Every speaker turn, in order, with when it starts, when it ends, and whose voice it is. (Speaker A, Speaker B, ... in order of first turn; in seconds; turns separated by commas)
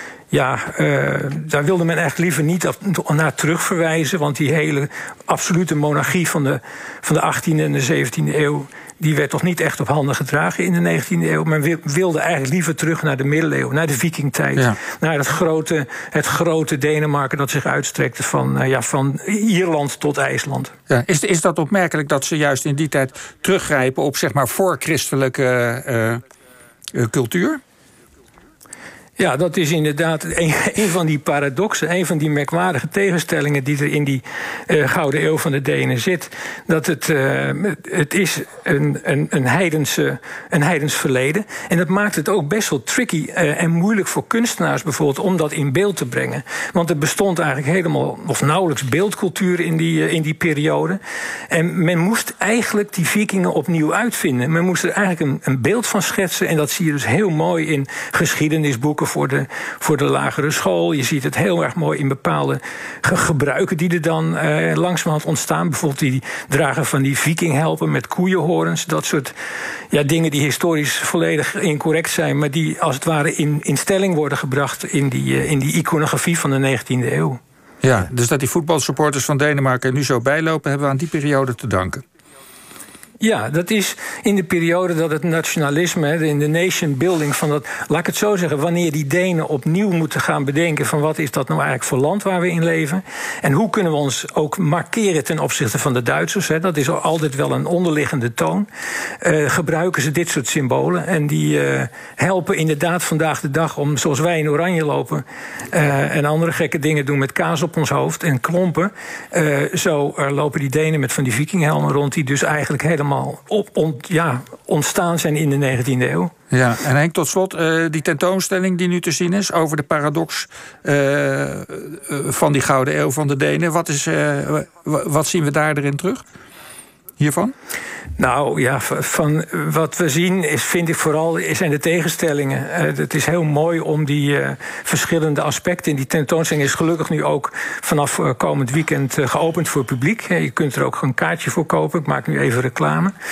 Speaker A: 0.3-20.7, Speaker B: 20.9-26.2, Speaker B: 26.9-27.6, Speaker A: 29.2-69.3, Speaker A: 69.9-77.4, Speaker B: 77.8-82.0, Speaker A: 83.2-98.7, Speaker A: 99.2-116.3, Speaker B: 116.5-126.2, Speaker B: 127.2-127.5, Speaker A: 128.2-143.1